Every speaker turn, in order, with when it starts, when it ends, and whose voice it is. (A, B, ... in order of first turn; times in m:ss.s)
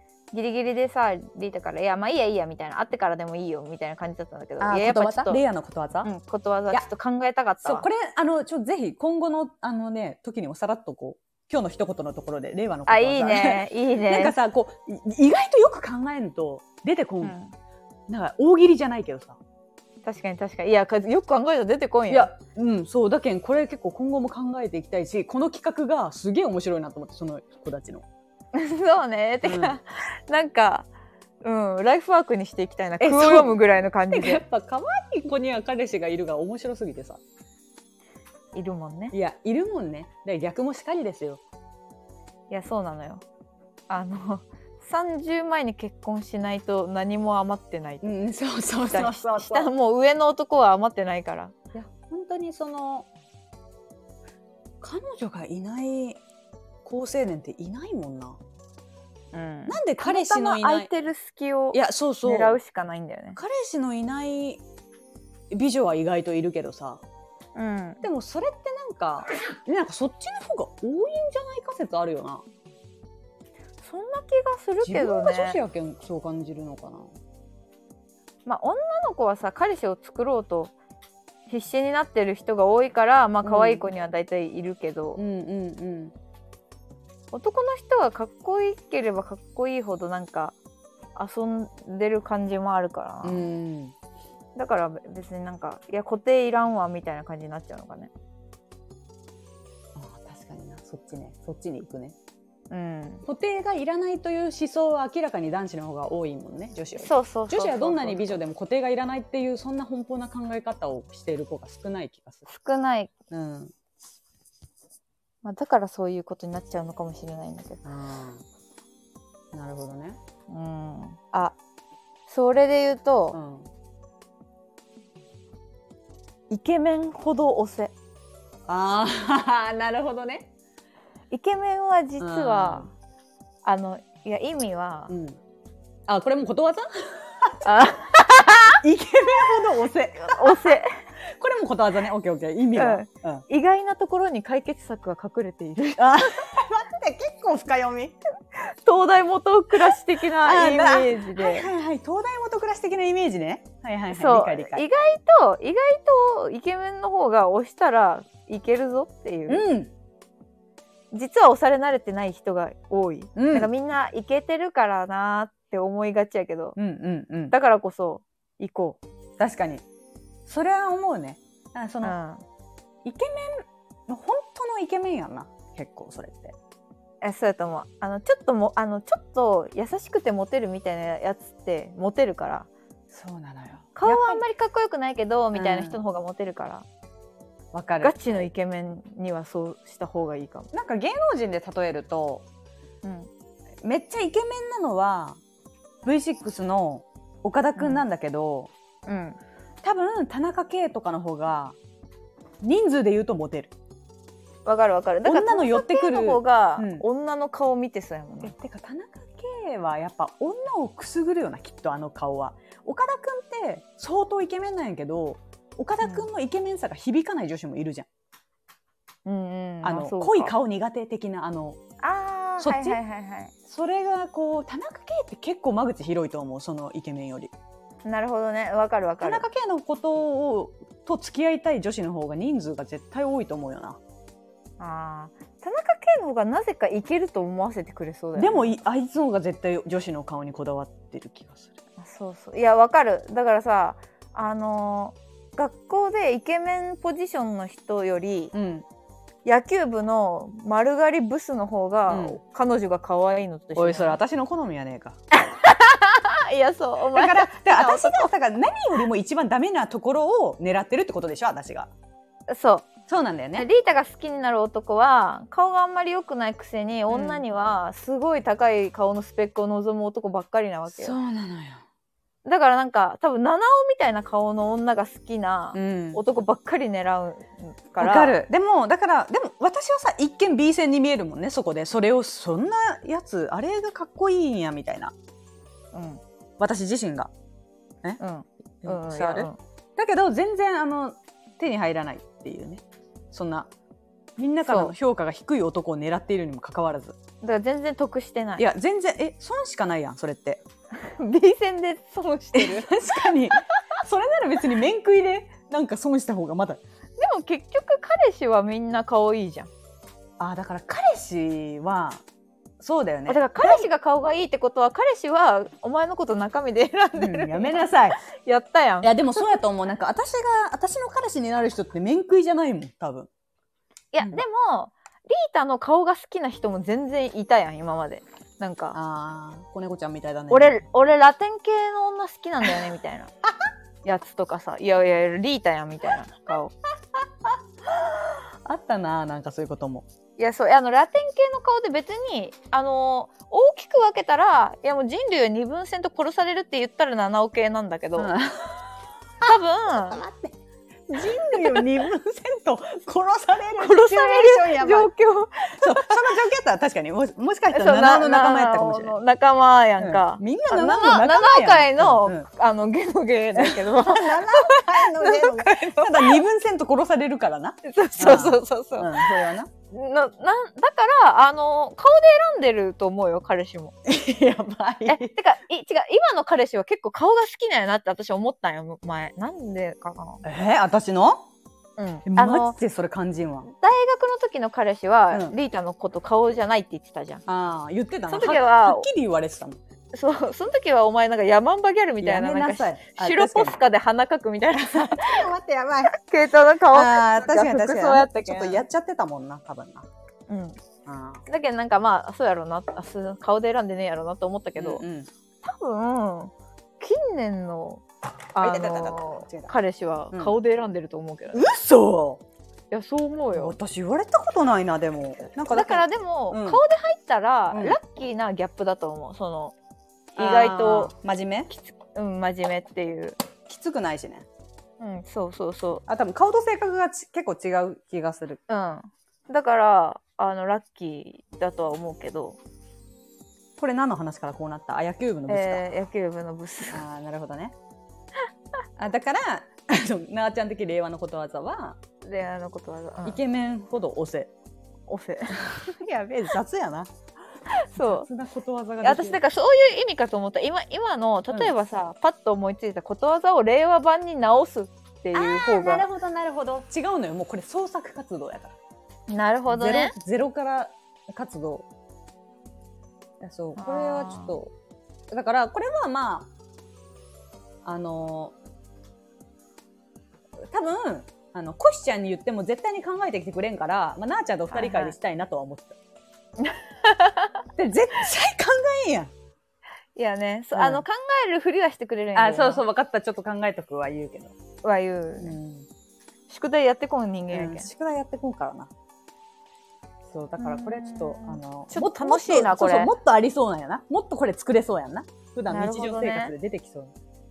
0:00.3-0:05.4 A
0:04.6-0:06.1 B
0:06.0-0:07.8 A
0:07.6-0:17.4 B
0:12.9-0:14.4 A
0:17.2-0:17.5 A
0:18.1-0:19.4 B
0:20.0-0:22.3 A
0:22.1-0:28.0 B
0:28.5-0:30.9 A
0:29.4-0:29.8 B
0:31.4-0:34.4 A
0:33.0-0:37.2 B
0:38.5-0:39.1 A
0:39.1-0:41.4 B
0:42.5-0:43.2 A
0:43.9-0:48.1 A
0:48.0-0:49.7 B
0:48.8-0:51.5 A
0:51.7-0:53.1 B
0:54.8-0:56.2 B
0:56.8-0:58.4 B
0:59.3-1:03.4 A
0:59.7-1:00.9 B
1:01.7-1:02.6 B
1:03.4-1:04.6 B
1:05.5-1:07.0 B
1:07.5-1:08.0 A
1:08.0-1:12.4 B
1:13.8-1:15.6 A
1:14.8-1:17.1 B
1:18.4-1:20.7 A
1:21.5-1:25.2 A
1:23.4-1:23.9 B
1:25.2-1:26.1 B
1:27.3-1:30.5 A
1:31.2-1:33.5 A
1:33.2-1:33.9 B
1:34.6-1:38.1 A
1:39.9-1:42.2 B
1:42.7-1:43.2 A
1:43.2-1:52.4 B
1:47.0-1:48.4 A
1:52.5-1:53.1 A
1:53.3-1:53.7 B
1:55.4-1:57.8 A
1:57.8-1:58.4 B
1:59.5-2:00.2 B
2:00.5-2:01.6 A
2:02.3-2:03.4 A
2:03.3-2:03.7 B
2:06.5-2:07.9 A
2:08.7-2:10.5 B
2:11.3-2:12.9 A
2:12.2-2:12.9 B
2:13.6-2:15.1 A
2:15.1-2:15.4 B
2:16.1-2:17.6 B
2:17.6-2:18.8 A
2:18.6-2:23.4 B
2:20.2-2:21.0 A
2:22.7-2:26.4 A
2:26.0-2:28.2 B
2:28.5-2:31.7 A
2:30.2-2:34.8 B
2:34.1-2:39.6 A
2:39.5-2:39.9 B
2:41.1-2:46.8 A
2:43.4-2:43.7 B
2:46.8-2:47.5 B
2:47.5-2:49.0 A
2:49.4-2:49.8 B
2:50.4-2:52.2 B
2:52.0-2:52.4 A
2:53.0-2:56.6 B
2:57.2-3:02.7 A
3:03.1-3:04.4 B
3:04.0-3:06.8 A
3:05.5-3:06.0 B
3:07.7-3:08.4 B
3:08.0-3:10.7 A
3:10.7-3:12.4 B
3:13.0-3:13.3 A
3:13.8-3:15.4 B
3:16.0-3:18.7 B
3:17.8-3:18.0 A
3:19.1-3:19.4 A
3:19.8-3:21.8 B
3:22.6-3:23.7 B
3:24.6-3:28.5 A
3:25.2-3:27.0 B
3:28.4-3:38.1 B
3:39.2-3:40.5 A
3:39.8-3:41.8 B
3:42.0-3:43.5 A
3:42.6-3:43.0 B
3:43.6-3:47.5 B
3:48.0-3:49.4 A
3:49.2-3:54.0 B
3:54.8-3:58.7 A
3:58.3-4:01.7 B
4:02.0-4:08.5 A
4:08.5-4:08.8 B
4:09.4-4:14.2 A
4:12.1-4:12.4 B
4:13.8-4:15.2 B
4:15.4-4:18.3 A
4:17.1-4:21.9 B
4:22.5-4:22.9 A
4:23.1-4:23.7 B
4:23.5-4:31.1 A
4:27.1-4:27.4 B
4:30.9-4:31.8 B
4:32.4-4:38.4 A
4:35.7-4:36.2 B
4:38.0-4:45.1 B
4:45.9-4:46.2 A
4:46.6-4:47.3 B
4:48.2-4:49.6 A
4:48.8-4:53.7 B
4:54.4-4:57.2 B
4:54.6-4:54.9 A
4:57.4-4:58.7 A
4:58.6-5:00.6 B
5:01.0-5:02.9 A
5:02.5-5:06.8 B
5:07.2-5:09.7 A
5:10.4-5:12.2 B
5:12.8-5:13.9 B
5:13.3-5:19.1 A
5:17.2-5:18.2 B
5:19.0-5:23.3 B
5:24.1-5:29.0 A
5:28.9-5:30.8 B
5:30.5-5:33.3 A
5:34.0-5:36.7 A
5:37.1-5:40.0 B
5:40.4-5:48.3 A
5:48.2-5:50.6 B
5:49.4-5:50.2 A
5:51.1-5:55.1 B
5:51.1-5:51.9 A
5:53.8-5:56.2 A
5:55.7-5:59.1 B
5:57.7-6:06.4 A
6:00.0-6:02.5 B
6:03.5-6:09.7 B
6:07.8-6:13.9 A
6:14.0-6:15.3 B
6:15.0-6:20.4 A
6:20.4-6:21.4 B
6:22.0-6:22.8 A
6:22.2-6:23.7 B
6:23.7-6:27.4 A
6:27.5-6:29.8 B
6:28.3-6:29.0 A
6:30.1-6:35.5 A
6:32.2-6:33.8 B
6:34.9-6:36.2 B
6:36.1-6:38.8 A
6:36.9-6:40.1 B
6:40.5-6:40.8 A
6:41.0-6:41.4 B
6:41.4-6:45.0 A
6:44.8-6:45.3 B
6:45.6-6:51.7 A
6:48.6-6:49.7 B
6:51.5-6:52.4 B
6:52.9-6:53.8 A
6:53.5-6:56.8 B
6:55.7-6:59.7 A
6:57.7-6:58.0 B
7:00.3-7:01.7 B
7:00.4-7:01.1 A
7:01.7-7:03.4 A
7:03.6-7:04.5 B
7:05.0-7:06.0 A
7:06.1-7:08.6 B
7:08.7-7:12.6 A
7:13.8-7:15.8 B
7:15.5-7:17.0 A
7:16.9-7:17.8 B
7:19.0-7:22.0 B
7:22.2-7:23.4 A
7:23.2-7:24.5 B
7:25.1-7:25.8 A
7:25.5-7:27.1 B
7:27.7-7:28.3 A
7:27.9-7:29.4 B
7:29.0-7:36.1 A
7:35.3-7:38.8 B
7:39.3-7:40.1 A
7:39.7-7:41.9 B
7:43.4-7:44.7 B
7:43.8-7:44.6 A
7:45.3-7:46.5 B
7:47.8-7:48.5 B
7:50.7-7:56.0 B
7:54.7-7:55.1 A
7:56.6-7:57.6 A
7:57.8-7:59.3 B
8:00.2-8:02.8 A
8:00.7-8:01.0 B
8:02.3-8:04.6 B
8:04.8-8:05.6 A
8:05.4-8:05.9 B
8:06.5-8:07.9 A
8:07.5-8:08.9 B
8:10.3-8:17.1 B
8:10.6-8:13.1 A
8:15.7-8:16.5 A